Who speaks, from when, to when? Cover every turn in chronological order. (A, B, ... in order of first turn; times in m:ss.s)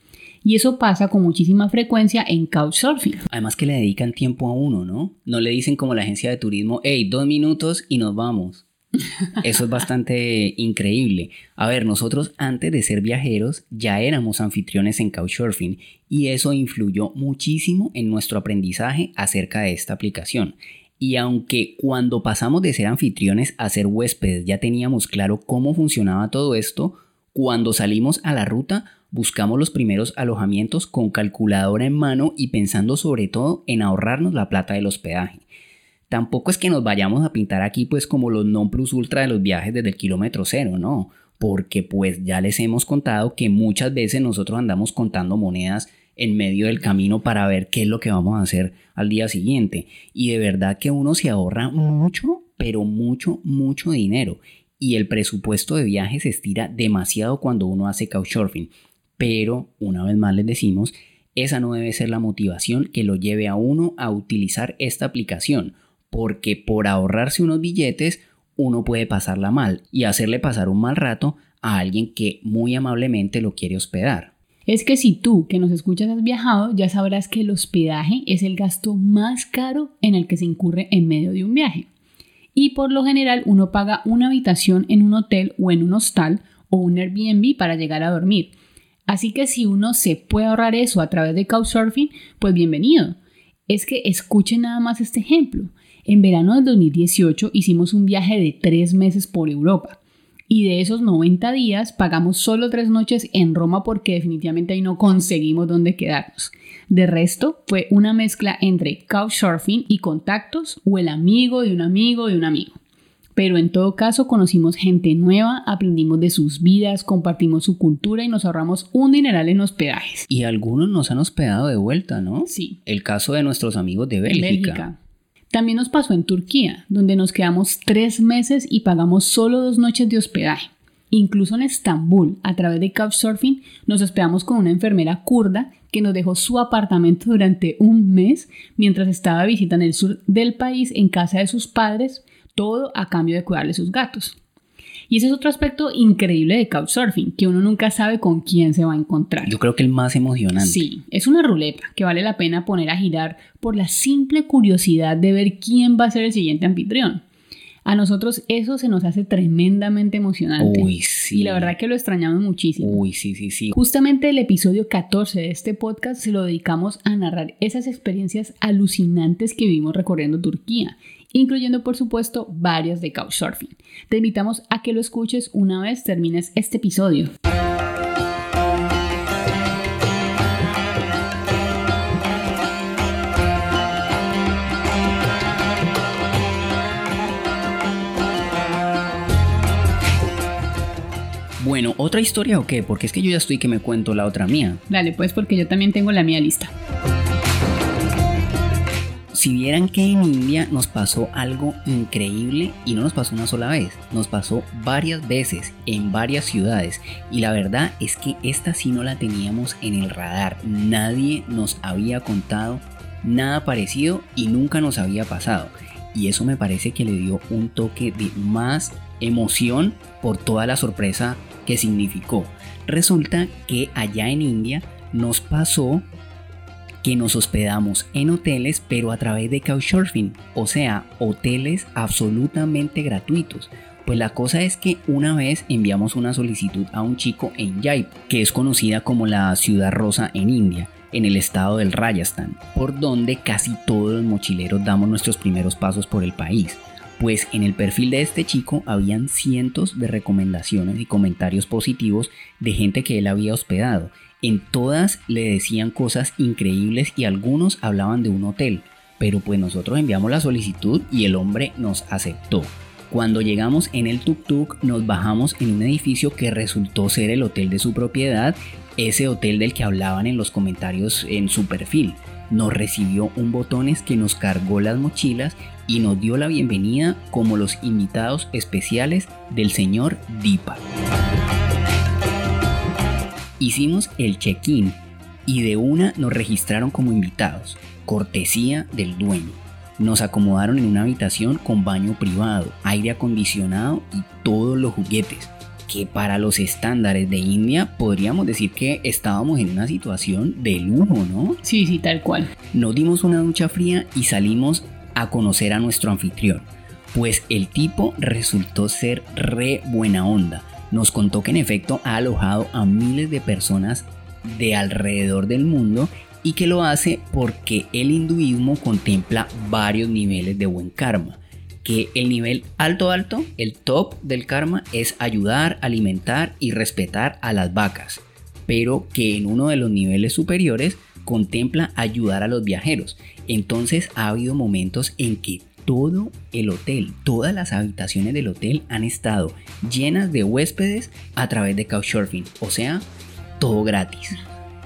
0:00.4-0:03.2 A
0:03.3-0:08.6 B
0:09.3-0:35.4 B
0:36.1-1:14.3 B
1:14.7-1:21.9 A
1:22.5-1:28.5 A
1:29.1-1:33.2 A
1:33.7-1:40.0 A
1:40.5-1:52.8 A
1:53.4-2:00.3 A
2:00.3-2:04.8 B
2:02.5-2:02.8 A
2:04.3-2:05.0 A
2:05.5-2:24.4 A
2:25.1-2:29.5 A
2:29.4-2:30.8 B
2:30.6-2:37.2 A
2:37.8-2:43.0 A
2:40.6-2:41.7 B
2:42.8-2:43.8 B
2:43.7-2:57.3 A
3:11.6-3:14.8 B
3:14.9-3:16.7 A
3:19.3-3:46.0 B
3:47.0-4:40.8 B
4:43.6-5:01.6 B
5:01.6-5:02.5 A
5:02.7-5:43.0 B
5:43.6-5:44.4 B